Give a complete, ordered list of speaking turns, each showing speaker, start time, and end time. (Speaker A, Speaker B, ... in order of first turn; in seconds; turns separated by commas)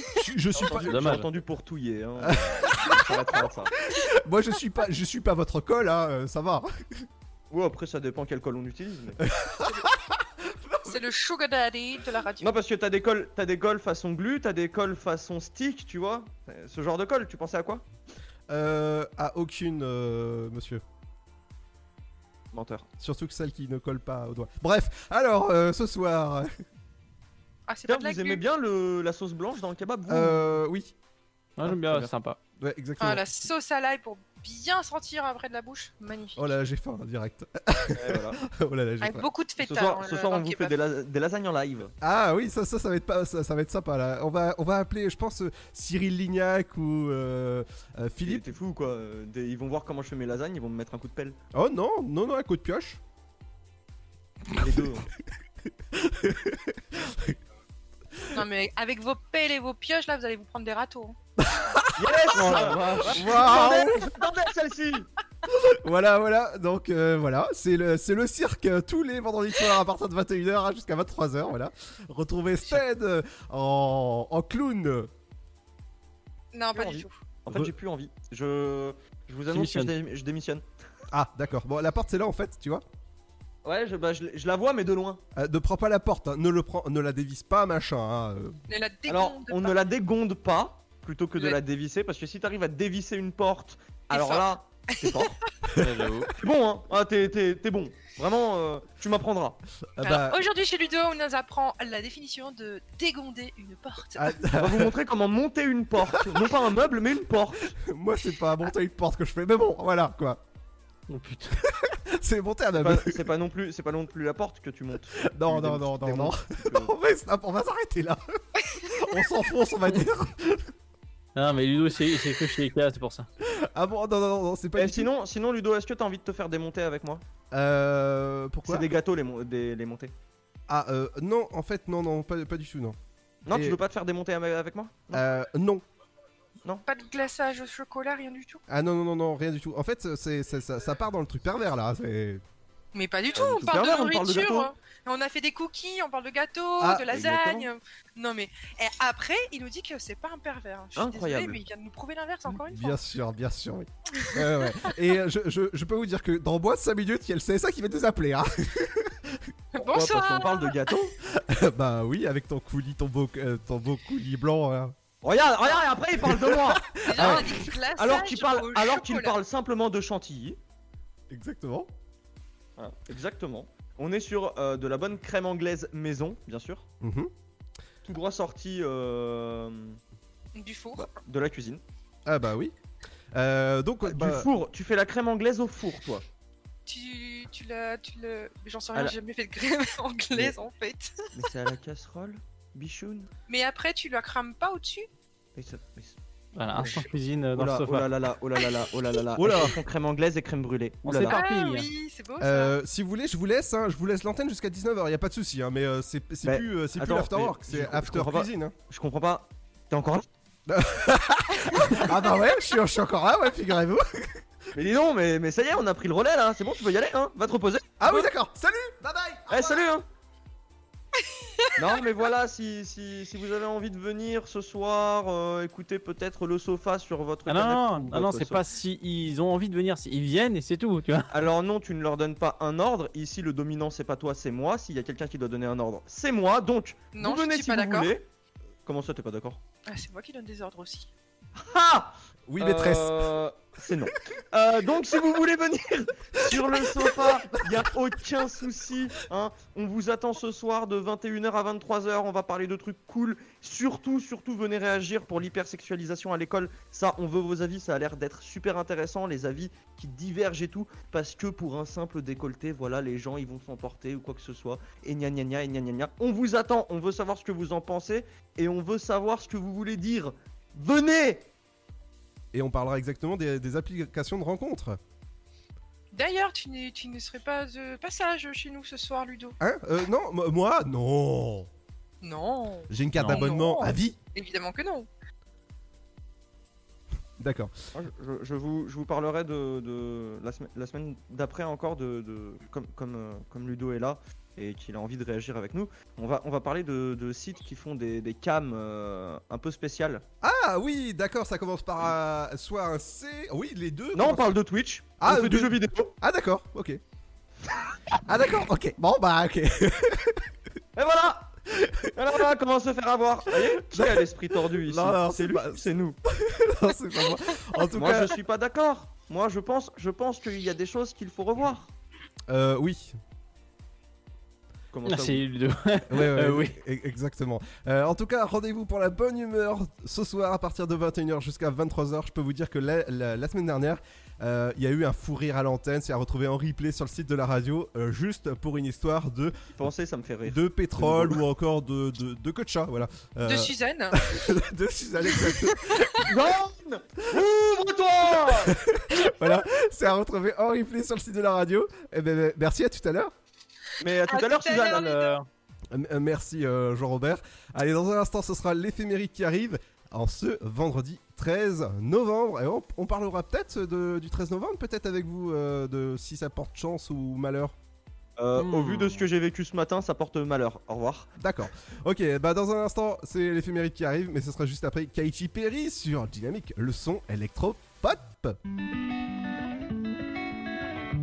Speaker A: 0.2-1.2, Speaker B: 0.5-3.7, Speaker C: 0.8-1.3, Speaker A: 2.2-7.0, Speaker B: 7.5-9.2, Speaker A: 9.2-11.1, Speaker D: 10.9-12.6, Speaker B: 12.4-17.9, Speaker A: 18.5-20.8, Speaker B: 22.5-22.9, Speaker A: 23.0-26.5, Speaker D: 27.7-28.4, Speaker B: 27.9-30.6, Speaker A: 30.1-30.9, Speaker C: 31.6-32.4, Speaker B: 31.8-32.1, Speaker A: 32.6-33.5, Speaker D: 33.0-36.5, Speaker A: 36.4-39.3, Speaker B: 38.0-38.4, Speaker D: 39.0-40.8, Speaker B: 39.6-41.9, Speaker A: 42.0-48.5, Speaker B: 48.2-51.4, Speaker A: 51.5-53.0, Speaker B: 54.5-55.1, Speaker A: 55.9-57.4, Speaker D: 58.4-61.1, Speaker A: 61.4-64.1, Speaker B: 62.0-65.1, Speaker A: 65.5-75.1, Speaker D: 76.5-77.2, Speaker B: 76.8-80.7, Speaker C: 79.5-79.9, Speaker A: 81.1-82.8, Speaker B: 83.7-85.2, Speaker A: 85.4-88.6, Speaker D: 88.7-89.8, Speaker B: 89.1-95.3, Speaker D: 94.1-94.5, Speaker C: 95.8-96.3, Speaker B: 96.4-99.6, Speaker A: 100.0-100.5, Speaker D: 100.0-104.3, Speaker A: 104.2-104.9, Speaker B: 104.5-107.8, Speaker A: 106.1-106.4, Speaker A: 107.7-110.4, Speaker C: 111.1-111.6, Speaker A: 112.1-113.2, Speaker B: 112.7-117.0, Speaker A: 115.2-118.2, Speaker A: 118.9-120.7, Speaker C: 121.4-123.3, Speaker A: 123.5-125.1, Speaker B: 124.8-127.2, Speaker A: 127.5-128.9, Speaker B: 128.6-130.1, Speaker A: 130.7-133.0, Speaker B: 133.5-135.2, Speaker A: 133.5-133.8, Speaker A: 135.1-135.8, Speaker D: 136.9-138.6, Speaker A: 138.7-142.4, Speaker D: 142.9-153.0, Speaker B: 143.3-144.7, Speaker A: 146.8-147.7, Speaker B: 147.3-147.6, Speaker B: 151.0-151.6, Speaker A: 152.5-159.3, Speaker D: 159.8-160.6, Speaker B: 159.8-161.1, Speaker A: 161.2-164.9, Speaker B: 165.2-170.6, Speaker A: 166.2-167.8, Speaker D: 167.1-169.3, Speaker A: 171.3-171.9, Speaker B: 172.8-176.8, Speaker A: 177.0-177.3, Speaker B: 178.1-180.0, Speaker D: 180.6-181.0, Speaker B: 181.3-181.8, Speaker A: 182.3-182.7, Speaker A: 183.3-184.5, Speaker B: 184.0-186.2, Speaker D: 186.9-191.0, Speaker B: 191.4-193.3, Speaker D: 193.5-195.0, Speaker B: 195.6-196.2, Speaker C: 196.6-198.1, Speaker B: 196.7-201.4, Speaker A: 199.4-199.8, Speaker C: 201.0-201.9, Speaker D: 201.3-202.7, Speaker A: 202.4-208.8, Speaker B: 206.4-210.3, Speaker A: 210.7-214.3, Speaker B: 211.7-212.1, Speaker B: 214.8-218.2, Speaker A: 218.0-219.9, Speaker B: 219.5-220.1, Speaker B: 221.8-228.7, Speaker C: 227.5-231.3, Speaker B: 231.3-238.3, Speaker D: 237.2-238.0, Speaker B: 238.9-239.6, Speaker D: 239.9-241.0, Speaker B: 241.6-271.5, Speaker A: 242.5-243.3, Speaker A: 246.4-247.8, Speaker A: 272.5-275.0, Speaker A: 279.6-281.7, Speaker A: 282.9-284.2, Speaker C: 283.1-283.4, Speaker A: 287.4-287.7, Speaker B: 287.9-300.2, Speaker A: 300.4-304.6, Speaker B: 304.1-306.1, Speaker A: 305.2-307.0, Speaker A: 308.3-310.4, Speaker B: 311.0-311.5, Speaker B: 312.1-316.2, Speaker A: 313.5-318.4, Speaker B: 317.9-321.9, Speaker A: 322.5-323.2, Speaker B: 324.9-325.5, Speaker C: 325.1-326.8, Speaker A: 326.1-339.6, Speaker B: 339.8-341.4, Speaker A: 340.4-346.1, Speaker B: 346.3-348.8, Speaker A: 348.5-353.3, Speaker B: 354.0-355.3, Speaker A: 355.9-367.8, Speaker B: 368.4-371.3, Speaker C: 368.6-369.2, Speaker A: 371.4-378.6